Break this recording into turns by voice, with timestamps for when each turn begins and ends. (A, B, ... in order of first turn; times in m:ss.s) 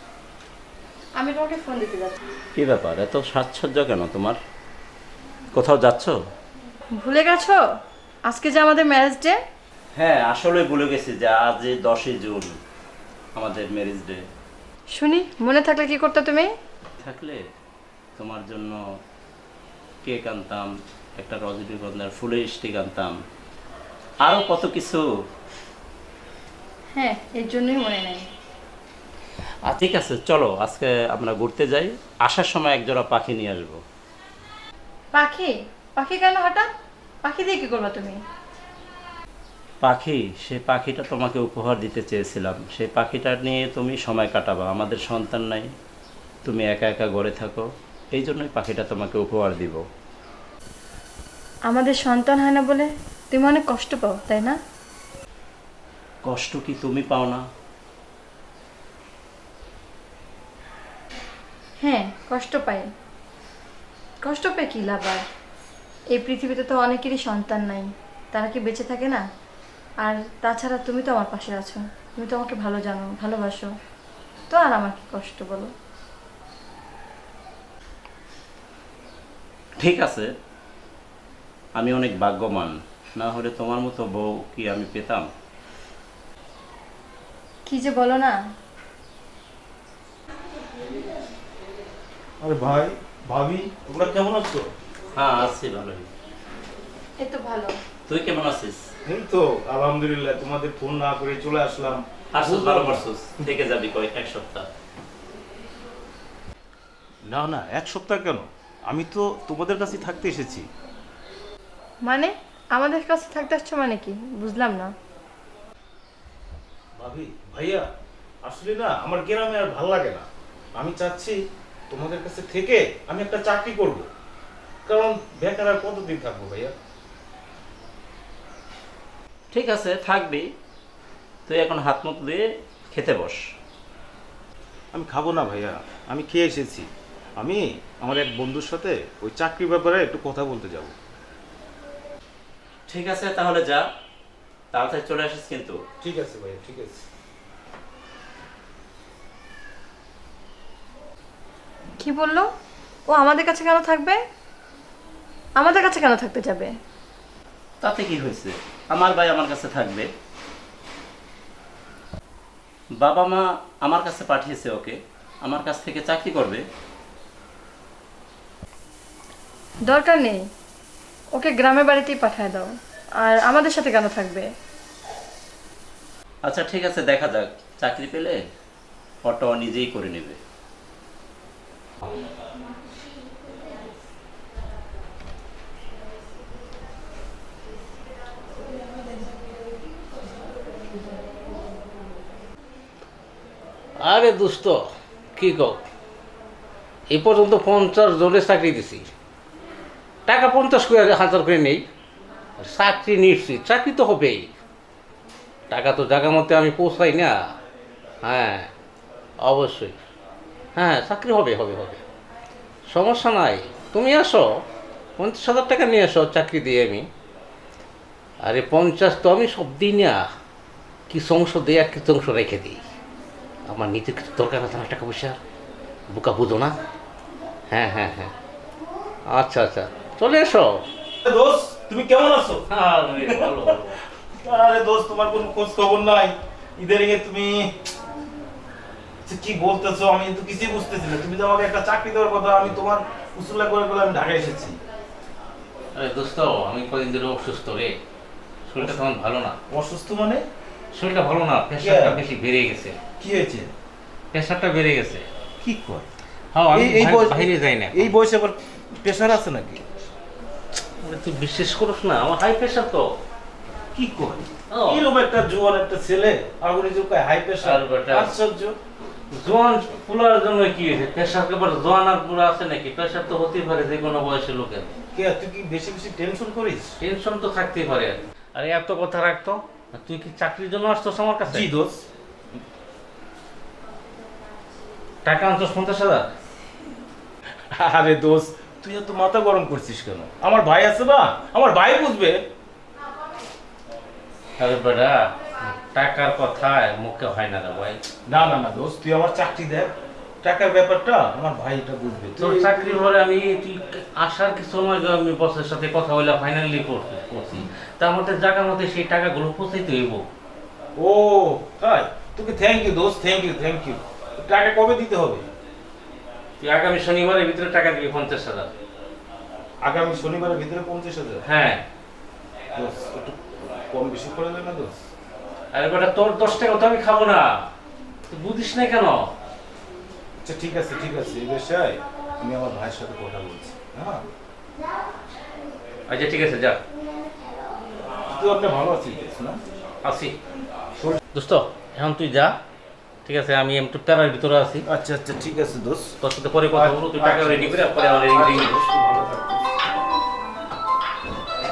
0:01.2-0:02.2 A
0:02.6-0:04.4 B
0:05.5-0:06.1 B
0:07.0-0:07.6 A
0:08.3-0:09.4 A
0:10.0-0:12.5 B
0:13.3-0:14.2 B
0:14.9-0:16.5 A
0:17.0-0:17.4 B
0:18.2-0:18.8 B
0:20.0-0:23.1 B
0:24.2-0:25.0 B
0:26.9-0:28.2 A
0:29.6-0:33.8 B
0:35.1-0:36.7 A
0:37.2-0:38.2 A
0:39.8-0:45.6 B
0:46.4-0:49.8 B
0:51.7-0:54.6 A
0:56.2-0:57.4 B
1:01.8-1:02.9 A
1:04.2-1:05.2 A
1:06.1-1:09.2 A
1:10.0-1:13.7 A
1:14.5-1:15.7 A
1:19.8-1:20.3 B
1:21.8-1:25.2 B
1:27.6-1:28.4 A
1:32.4-1:34.7 C
1:35.2-1:36.1 B
1:37.2-1:37.8 A
1:38.1-1:38.8 B
1:39.0-1:43.4 C
1:42.3-1:44.6 B
1:47.3-1:50.6 C
1:52.0-1:54.9 A
1:57.0-1:57.9 C
1:58.4-2:00.2 C
2:00.8-2:01.4 C
2:01.9-2:04.1 C
2:04.8-2:06.7 C
2:09.5-2:10.4 B
2:11.5-2:13.4 B
2:14.9-2:20.9 C
2:22.9-2:23.8 B
2:24.7-2:25.8 B
2:26.0-2:27.0 C
2:32.0-2:32.5 A
2:33.1-2:34.2 A
2:35.6-2:36.7 A
2:37.8-2:40.0 B
2:43.0-2:46.6 B
2:49.9-2:50.4 A
2:51.3-2:52.7 A
2:53.2-2:54.5 A
2:56.4-2:58.4 B
2:59.2-3:00.4 B
3:14.0-3:14.8 D
3:15.4-3:15.8 D
3:17.1-3:19.1 D
3:20.3-3:21.8 D
3:22.6-3:24.5 D
3:25.7-3:27.4 D
3:28.2-3:28.7 D
3:29.4-3:30.0 D
3:30.8-3:32.0 D
3:32.9-3:34.6 D
3:35.2-3:37.1 D
3:38.4-3:40.2 D
3:41.1-3:42.8 D
3:43.7-3:45.4 D
3:46.1-3:46.8 D
3:47.7-3:48.3 D
3:49.3-3:50.8 D
3:51.2-3:52.6 C
3:52.7-3:54.0 D
3:53.2-3:53.8 C
3:54.3-3:57.7 C
3:59.2-4:04.8 C
4:05.9-4:07.9 D
4:08.7-4:09.6 D
4:09.7-4:10.4 C
4:10.9-4:13.0 D
4:11.8-4:12.2 C
4:13.2-4:13.7 C
4:14.3-4:15.2 D
4:15.6-4:16.1 C
4:16.5-4:18.1 D
4:16.7-4:19.8 C
4:21.0-4:23.0 D
4:23.9-4:28.8 C
4:24.7-4:25.1 D
4:27.6-4:28.3 D
4:29.3-4:35.0 D
4:35.1-4:36.9 C
4:37.0-4:41.7 D
4:41.5-4:42.0 C
4:45.2-4:46.3 D
4:47.7-4:52.4 C
4:54.6-4:58.0 D
4:58.3-4:59.9 C
5:00.4-5:02.8 C
5:02.4-5:10.2 D
5:11.0-5:15.4 C
5:16.6-5:18.7 D
5:19.8-5:21.4 C
5:21.4-5:21.8 D
5:22.7-5:25.0 C
5:25.7-5:27.7 D
5:28.3-5:29.3 D
5:30.4-5:34.2 C
5:36.1-5:36.8 D
5:38.3-5:39.6 C
5:40.0-5:40.4 D
5:41.3-5:42.5 D
5:43.2-5:44.8 D
5:44.9-5:46.2 C
5:46.2-5:48.8 D
5:46.7-5:49.7 C